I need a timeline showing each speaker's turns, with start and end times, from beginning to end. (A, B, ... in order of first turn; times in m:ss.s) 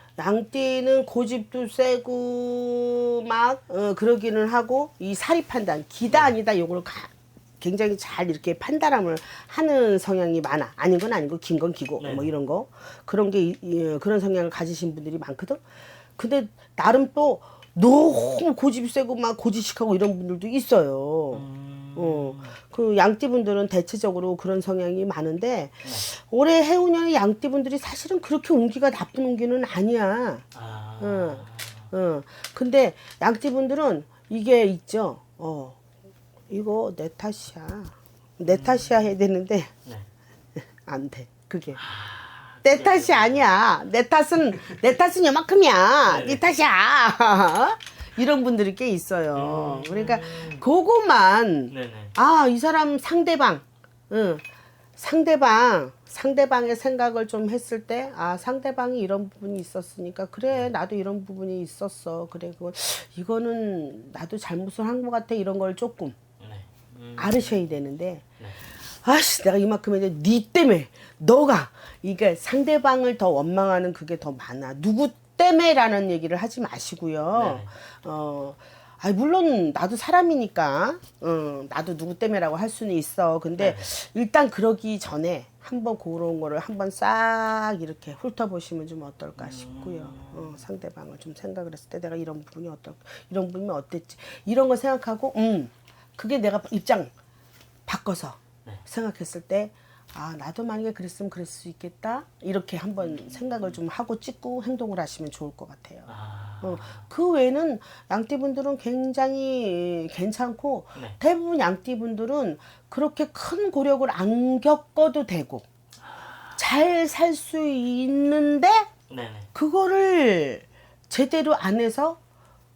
0:00.2-0:15.7 A
0:06.1-0:06.4 B
0:12.0-0:12.3 B
0:16.2-0:30.5 A
0:21.3-0:22.6 B
0:25.8-0:26.1 B
0:30.5-0:31.9 B
0:31.0-0:35.8 A
0:36.5-0:39.7 A
0:38.5-0:39.0 B
0:40.8-0:41.8 A
0:41.7-0:43.5 B
0:42.6-0:54.4 A
0:46.0-0:46.5 B
0:49.3-0:50.6 B
0:51.7-0:52.2 B
0:55.0-1:06.2 A
1:06.4-1:07.6 B
1:07.2-1:08.2 A
1:08.8-1:37.1 A
1:17.4-1:17.8 B
1:23.6-1:23.9 B
1:29.4-1:30.6 B
1:37.9-1:55.7 A
1:43.0-1:43.8 B
1:46.1-1:47.0 B
1:56.0-1:56.6 B
1:56.6-1:58.9 A
1:59.1-1:59.5 B
1:59.5-2:02.2 A